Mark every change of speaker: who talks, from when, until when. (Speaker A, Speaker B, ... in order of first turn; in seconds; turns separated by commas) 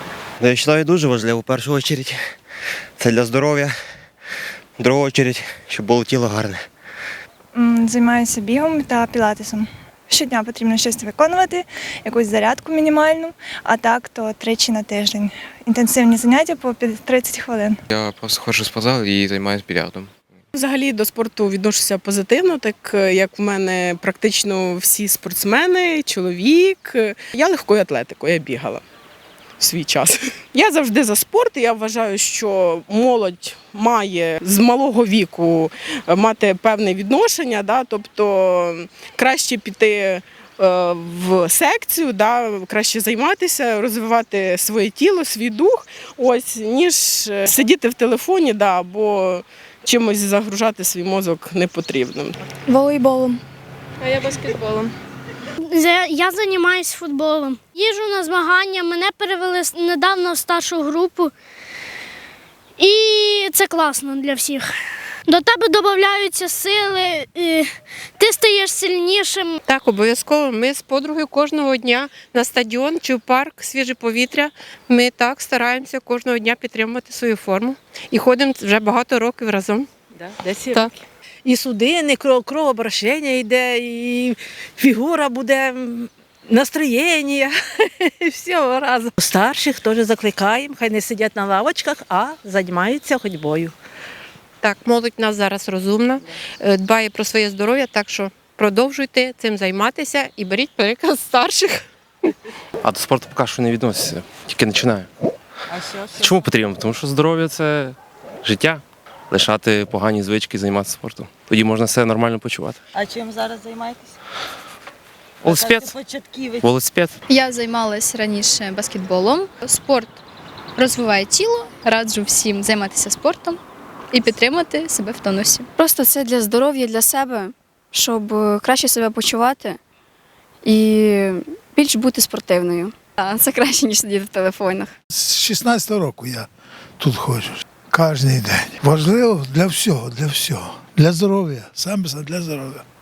Speaker A: 0.4-2.2, Speaker A: 3.0-3.7, Speaker A: 4.8-6.6, Speaker B: 7.5-17.8, Speaker C: 17.9-20.1, Speaker D: 20.5-28.8, Speaker D: 29.6-52.4, Speaker E: 52.7-53.4, Speaker D: 54.0-54.9, Speaker F: 55.7-61.3, Speaker F: 62.8-64.7, Speaker F: 65.3-69.5, Speaker G: 69.7-79.9, Speaker H: 80.1-93.7, Speaker G: 94.6-101.8, Speaker I: 102.8-105.1, Speaker J: 105.7-106.4, Speaker I: 106.1-112.8, Speaker J: 112.9-114.1, Speaker I: 115.4-116.0, Speaker J: 115.4-116.6, Speaker I: 116.6-117.2, Speaker E: 117.3-120.2, Speaker E: 120.8-123.6, Speaker E: 124.1-125.7, Speaker K: 125.8-129.8, Speaker K: 130.6-134.9, Speaker L: 135.1-136.5, Speaker L: 137.0-142.8